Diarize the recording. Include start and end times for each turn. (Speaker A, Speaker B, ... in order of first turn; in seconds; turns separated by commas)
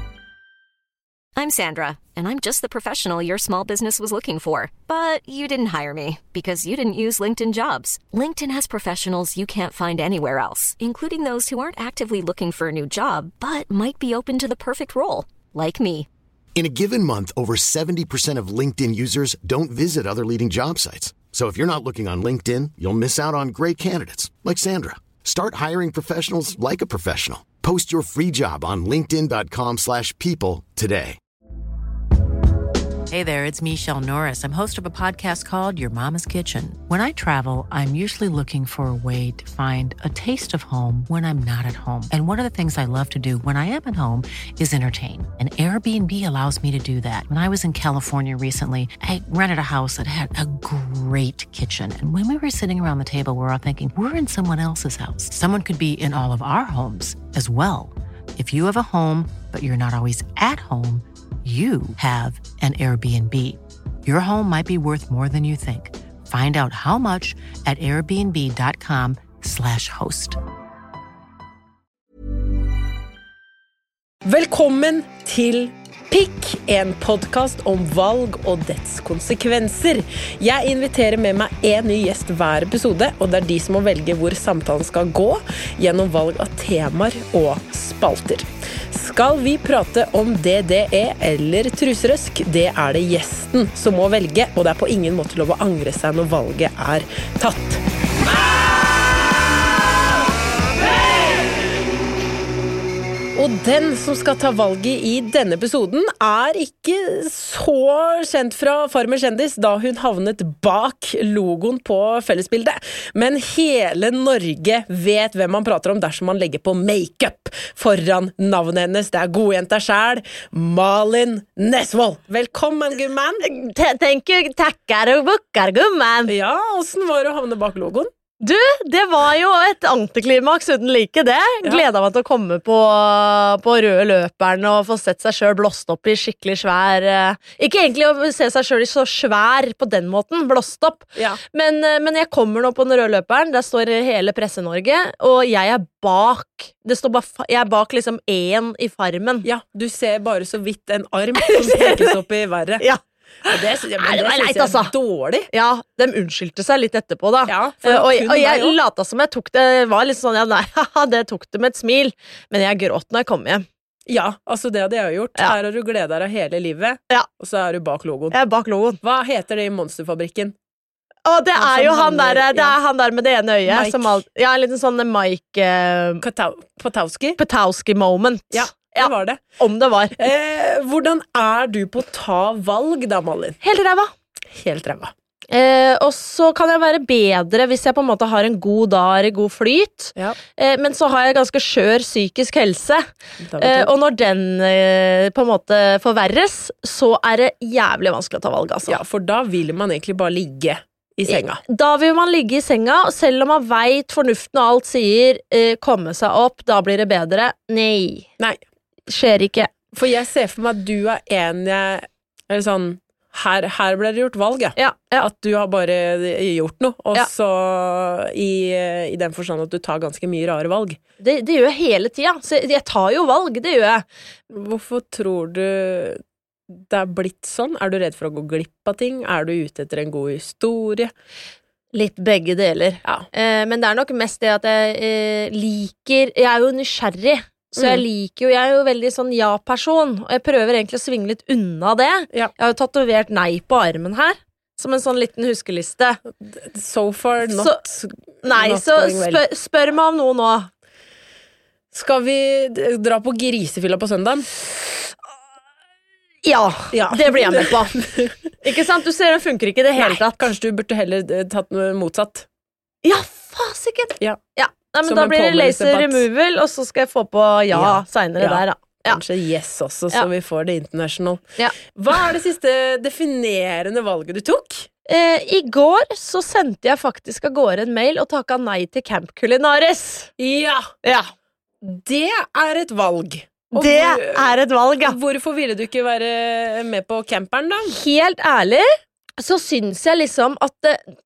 Speaker A: 1.4-16.1, Speaker B: 16.6-31.2, Speaker C: 33.1-70.4, Speaker D: 74.2-97.8, Speaker D: 103.3-123.5, Speaker E: 123.4-126.3, Speaker D: 126.3-128.1, Speaker E: 128.4-149.5, Speaker D: 141.2-141.4, Speaker D: 149.4-152.8, Speaker E: 151.4-152.1, Speaker E: 152.8-154.9, Speaker D: 153.5-155.5, Speaker E: 155.5-163.7, Speaker D: 157.5-158.8, Speaker D: 164.1-168.3, Speaker E: 168.3-169.0, Speaker D: 169.0-170.5, Speaker E: 171.2-176.2, Speaker D: 171.6-172.8, Speaker D: 173.7-174.2, Speaker D: 176.2-177.4, Speaker E: 177.4-180.2, Speaker D: 178.5-179.4, Speaker D: 180.2-183.6, Speaker E: 183.6-184.1, Speaker D: 184.5-185.1, Speaker E: 185.5-193.1, Speaker D: 193.4-193.9, Speaker E: 193.6-199.0, Speaker D: 198.9-201.6, Speaker E: 201.3-208.3, Speaker E: 209.1-209.8, Speaker D: 209.9-221.0, Speaker E: 214.8-215.3, Speaker E: 221.2-224.0, Speaker D: 224.5-231.1, Speaker E: 231.9-246.2, Speaker D: 237.8-238.0, Speaker D: 246.4-249.4, Speaker E: 247.4-250.7, Speaker D: 251.9-254.5, Speaker E: 256.4-257.9, Speaker D: 256.9-258.4, Speaker E: 258.6-260.5, Speaker D: 259.9-262.5, Speaker E: 263.0-269.2, Speaker D: 265.0-266.2, Speaker D: 267.7-274.9, Speaker E: 275.1-280.3, Speaker D: 280.4-280.9, Speaker E: 281.0-281.3, Speaker D: 281.8-287.9, Speaker E: 283.7-285.2, Speaker E: 287.9-288.9, Speaker E: 289.4-291.0